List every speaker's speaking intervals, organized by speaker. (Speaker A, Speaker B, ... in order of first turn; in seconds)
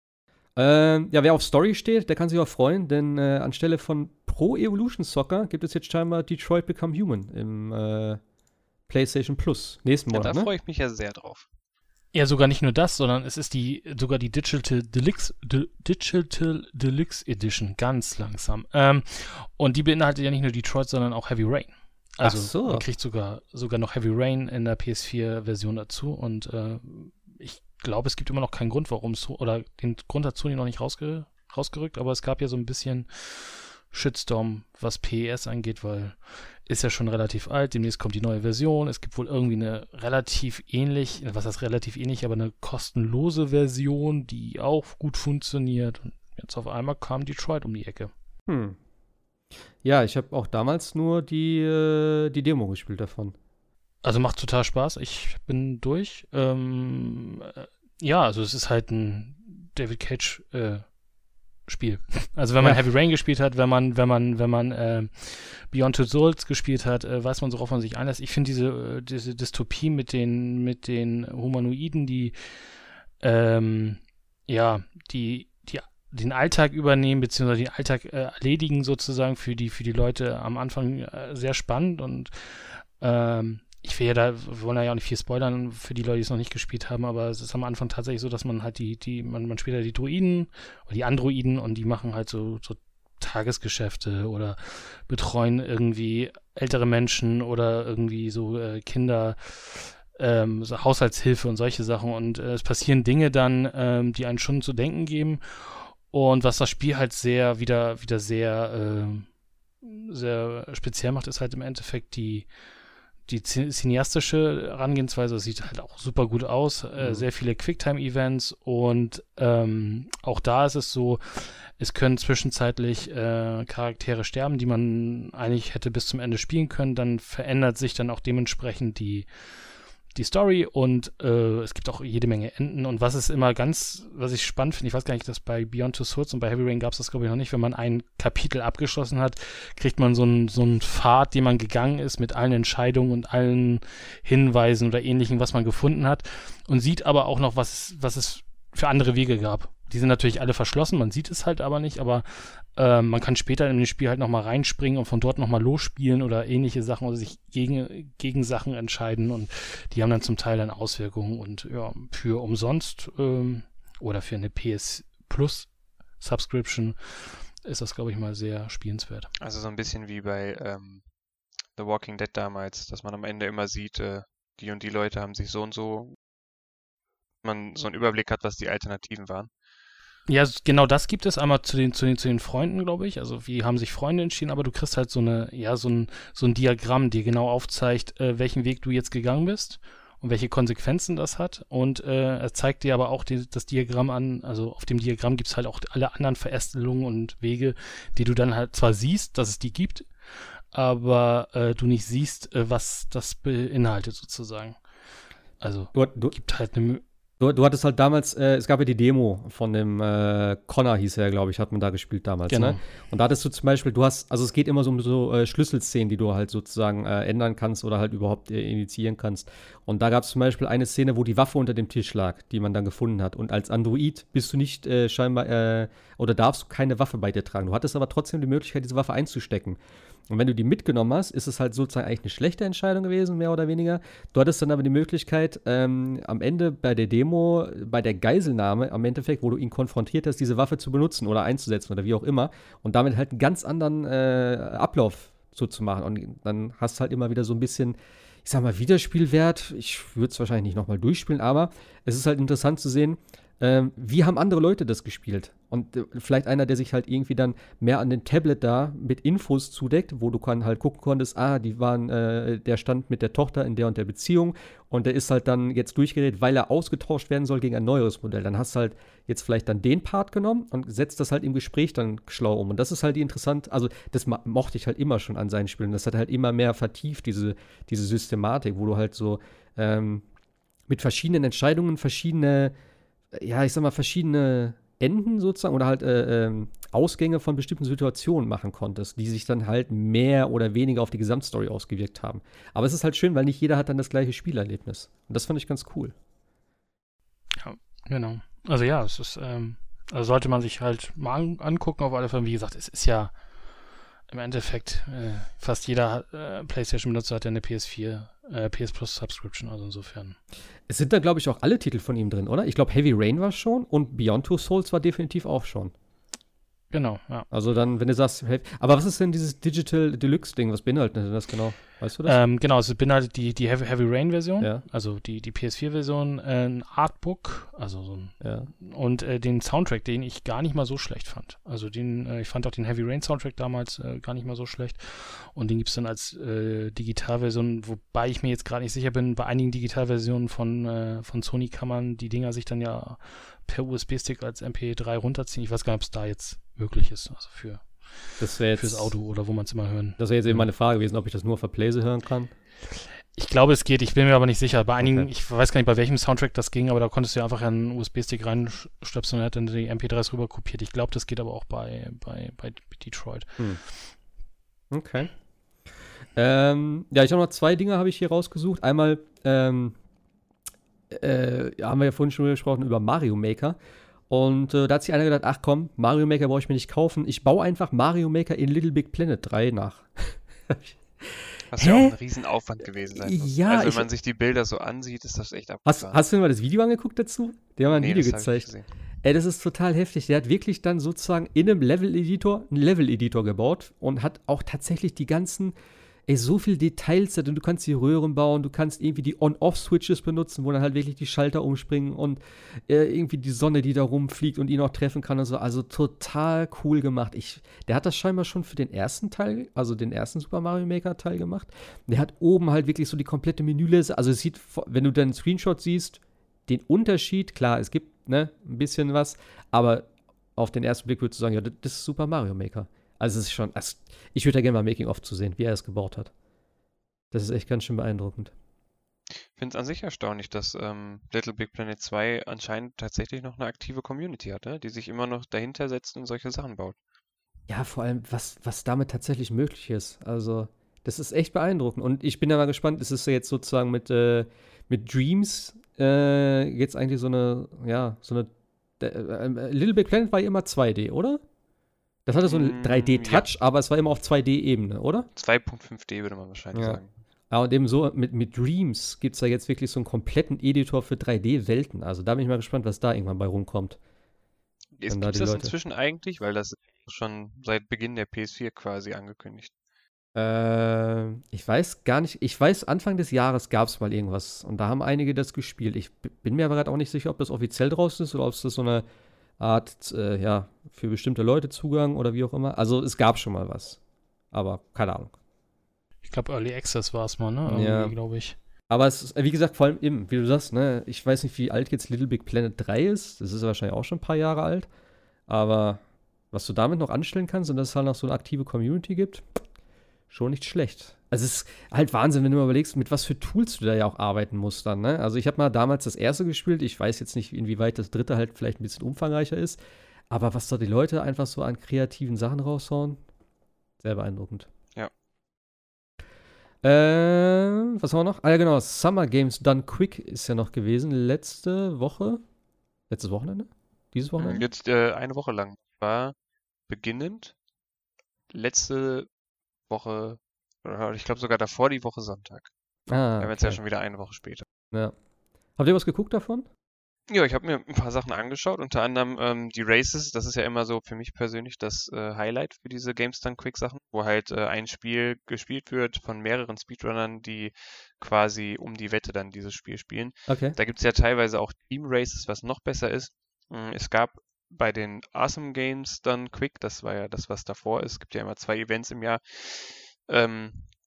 Speaker A: 0.6-8.2, 8.9-10.5, 22.2-22.9, 48.5-48.8, 49.8-53.4, 62.6-62.9, 117.0-117.2, 205.9-206.4, 207.4-280.2, 280.9-282.7, 283.3-296.1, 310.9-315.9, 317.5-322.4, 328.4-328.7, 348.4-349.1, 350.2-352.5, 355.0-355.3, 364.9-365.3, 366.4-370.0, 371.1-373.8, 374.3-382.2, 383.2-384.1, 385.9-388.7, 389.2-395.8, 396.3-426.3, 427.3-428.5, 437.7-451.4, 452.3-455.3, 456.8-464.0, 465.1-465.7, 470.4-479.1, 479.6-484.0, 484.5-485.3, 487.7-488.1, 488.9-494.9, 495.5-496.0, 496.5-499.5, 500.3-509.8, 510.3-513.2, 514.0-514.7, 516.8-522.4, 523.1-524.6, 533.1-533.8, 535.8-536.7, 550.5-550.8
Speaker B: 10.1-11.5, 169.4-171.0, 171.8-176.2, 177.4-179.5, 381.7-386.2, 387.9-388.9, 429.6-437.0, 452.5-453.5, 455.4-457.1, 465.0-469.7, 524.4-526.4, 526.9-527.5, 528.5-529.3, 529.9-532.7, 533.4-534.7, 537.3-560.9
Speaker C: 12.1-48.1, 54.0-60.9, 61.7-109.3, 109.8-112.5, 113.3-129.5, 130.1-169.3, 180.3-204.8, 205.6-207.0, 212.5-212.8, 297.6-303.3, 304.3-310.4, 316.9-317.5, 322.2-348.1, 348.7-350.7, 353.4-363.5, 486.2-488.6